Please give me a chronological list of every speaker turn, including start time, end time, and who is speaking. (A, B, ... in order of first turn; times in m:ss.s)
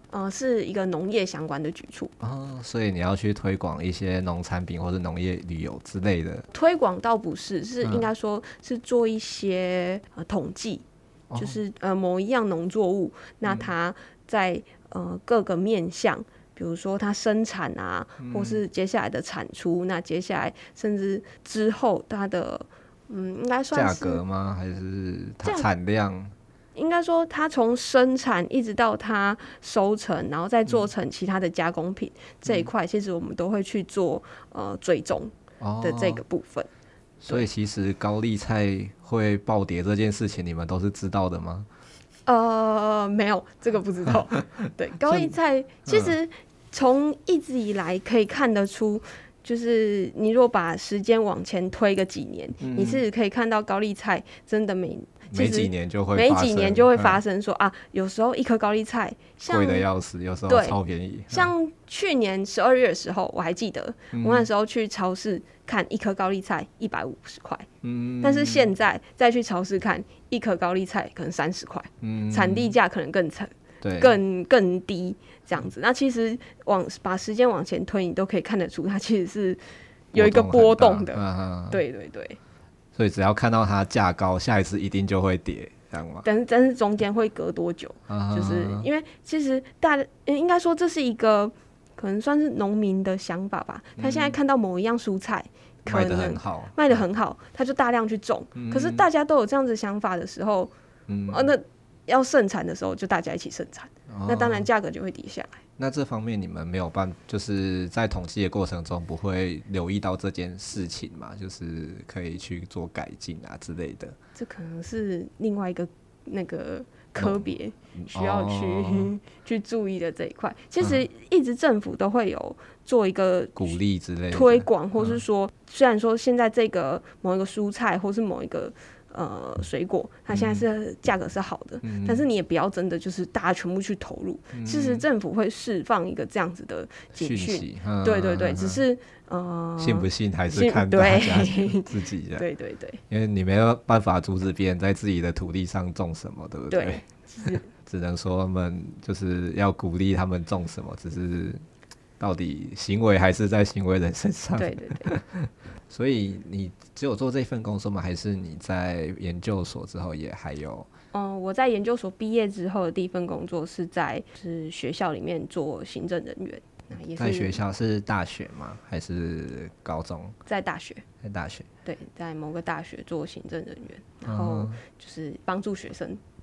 0:00.1-0:02.1 A
0:02.2-0:06.4 B
0:06.5-0:10.8 A
0:07.8-0:08.1 B
0:11.3-0:11.6 B
0:11.4-0:24.2 A
0:13.4-0:13.7 B
0:18.2-0:18.6 B
0:23.7-0:26.3 B
0:25.4-0:25.7 A
0:26.7-0:36.7 A
0:32.4-0:32.7 B
0:35.6-0:36.2 B
0:37.2-0:41.7 B
0:42.2-0:59.8 A
0:45.1-0:45.3 B
0:45.8-0:46.2 B
0:52.6-0:53.0 B
0:55.3-0:57.2 B
0:59.4-1:01.5 B
1:00.5-1:00.8 A
1:01.3-1:07.7 A
1:04.1-1:04.5 B
1:07.8-1:08.7 B
1:08.2-1:22.4 A
1:12.0-1:12.8 B
1:13.8-1:14.1 B
1:20.1-1:21.8 B
1:22.9-1:26.3 B
1:26.2-1:40.7 A
1:28.1-1:28.9 B
1:34.0-1:34.4 B
1:35.9-1:37.0 B
1:38.6-1:39.0 B
1:41.1-1:41.5 B
1:41.3-1:45.6 A
1:44.1-1:44.7 B
1:45.8-1:54.2 B
1:54.4-2:03.8 A
1:57.2-1:59.1 B
2:03.6-2:05.2 B
2:04.3-2:23.0 A
2:10.3-2:10.6 B
2:11.8-2:12.2 B
2:14.5-2:15.0 B
2:17.2-2:18.8 B
2:19.8-2:22.4 B
2:23.1-2:31.6 B
2:26.7-2:27.7 A
2:32.2-2:40.9 B
2:34.6-2:35.2 A
2:41.1-2:47.6 A
2:47.2-2:50.4 B
2:50.5-2:51.0 A
2:51.2-2:51.7 B
2:51.8-2:56.2 A
2:54.2-2:54.8 B